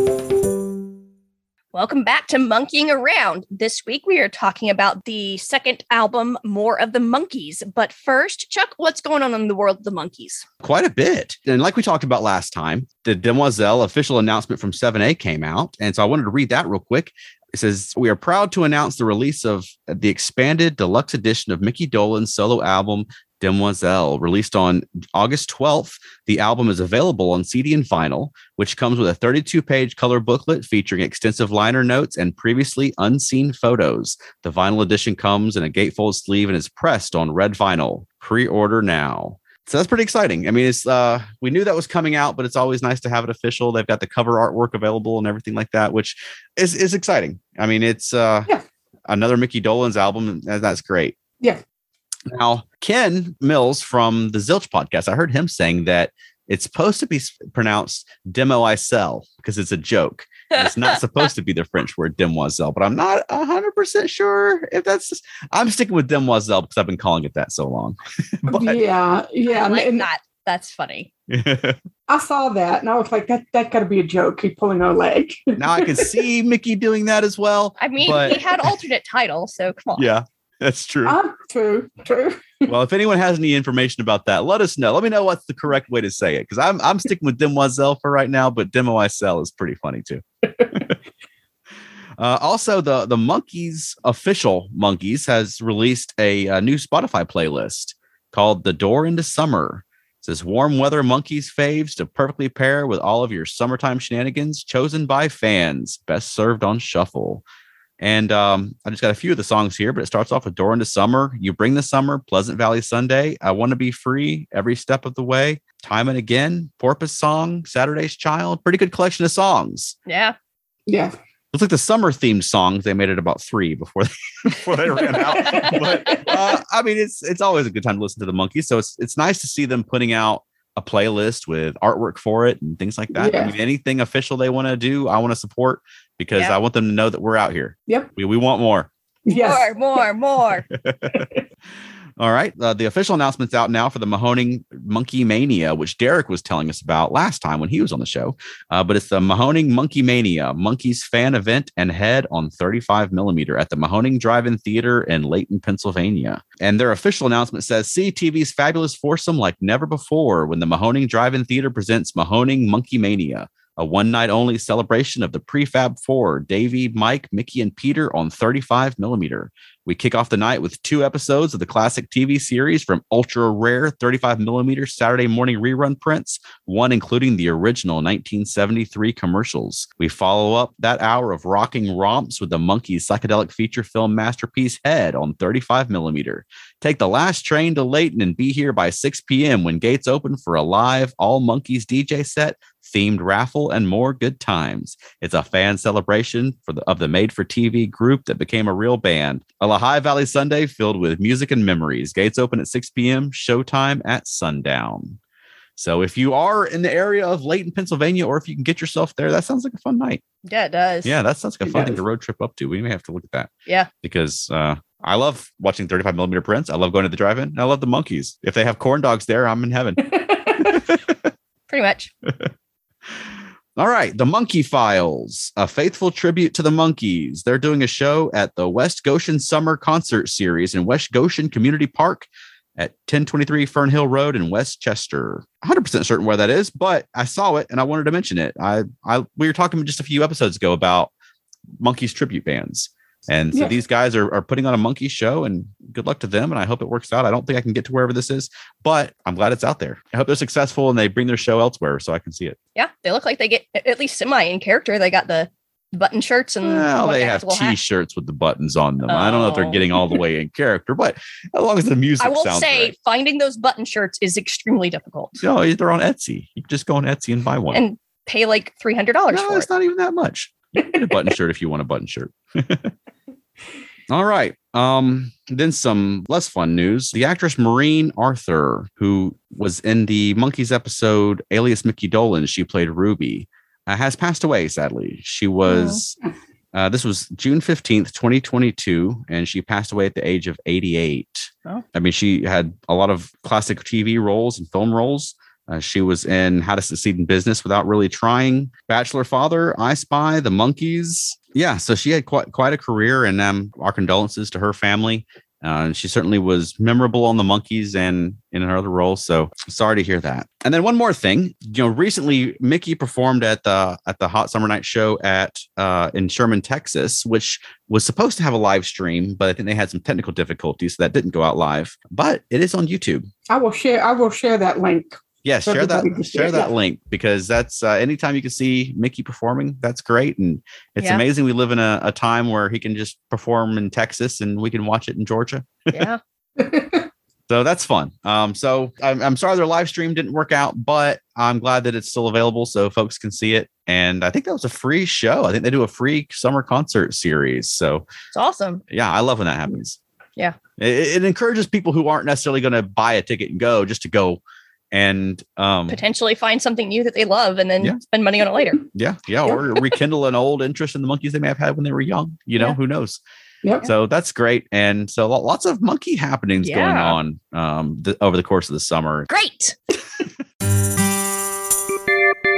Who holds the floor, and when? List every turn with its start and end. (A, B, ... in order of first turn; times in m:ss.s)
0:01.7-0:10.4 A
0:10.6-0:48.5 B
0:49.1-0:51.2 B
0:52.3-1:08.8 B
1:00.5-1:01.0 A
1:08.5-1:10.1 C
1:09.5-1:11.1 A
1:11.3-1:11.8 B
1:12.1-1:16.2 C
1:15.6-1:18.4 B
1:17.8-1:20.1 A
1:20.0-1:21.2 B
1:21.0-1:22.7 C
1:22.7-1:31.0 B
1:32.2-1:47.4 B
1:48.0-2:00.0 B
2:00.1-2:00.4 A
2:00.9-2:01.2 C
2:01.5-2:18.9 B
2:04.9-2:06.6 C
2:13.1-2:13.6 C
2:19.3-2:19.7 C
2:19.3-2:20.7 A
2:20.8-2:21.3 B
2:22.2-3:25.2 B
3:25.8-3:30.2 B
3:30.5-3:31.2 A
3:31.0-3:33.5 B
3:31.7-3:32.0 C
3:34.0-3:41.3 B
3:40.0-3:40.7 C
3:41.7-3:42.1 A
3:43.1-4:01.1 B
4:01.8-4:12.6 B
4:12.8-4:17.8 A
4:16.6-4:22.9 B
4:19.1-4:19.9 A
4:22.2-4:25.4 A
4:25.4-4:27.8 B
4:27.7-4:29.7 A
4:29.3-4:32.9 B
4:34.1-4:46.2 B
4:45.7-4:46.0 A
4:46.7-5:23.3 B
5:23.5-5:26.7 C
5:25.4-5:36.0 B
5:31.0-5:31.2 A
5:35.9-5:36.2 A
5:36.6-5:37.0 C
5:37.5-5:48.0 B
5:48.3-5:48.8 A
5:48.9-5:50.0 B
5:50.8-5:54.4 B
5:54.9-5:56.0 B
5:55.9-5:58.8 A
5:58.9-6:03.2 B
6:03.6-6:03.9 C
6:03.8-6:09.3 B
6:06.6-6:07.2 A
6:09.3-6:09.8 A